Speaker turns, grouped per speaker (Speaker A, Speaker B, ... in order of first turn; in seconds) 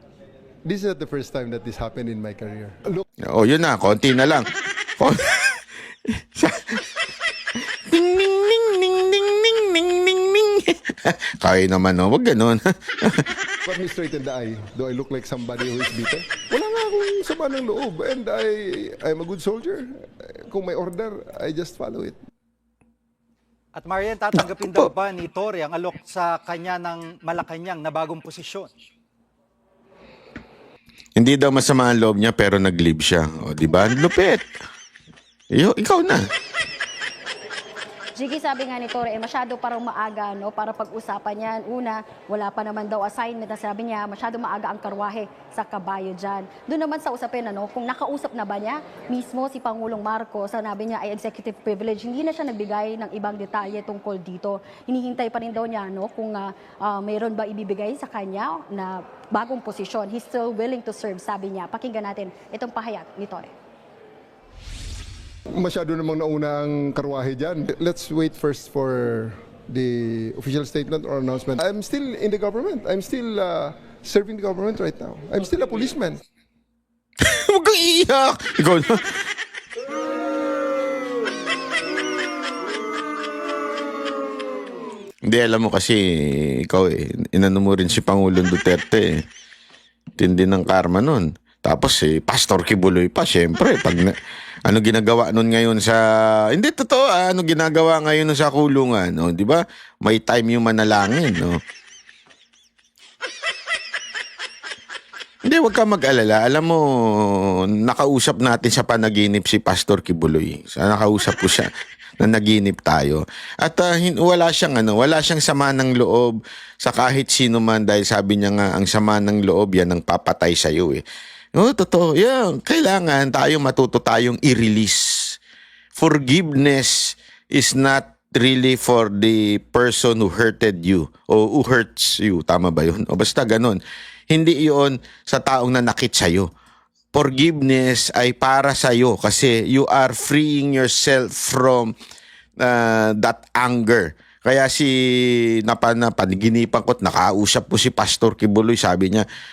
Speaker A: 0.6-3.0, 13.6-22.2, 65.5-76.2
Speaker B: 3.2-6.8, 7.9-13.2, 31.2-34.4, 35.5-36.3, 77.2-79.1, 85.3-89.2, 90.2-94.1, 94.7-101.6, 105.5-111.7, 112.2-121.0, 121.5-125.4, 126.0-136.5, 137.1-141.9, 142.6-149.2
Speaker C: 23.8-28.7
Speaker D: 38.2-63.5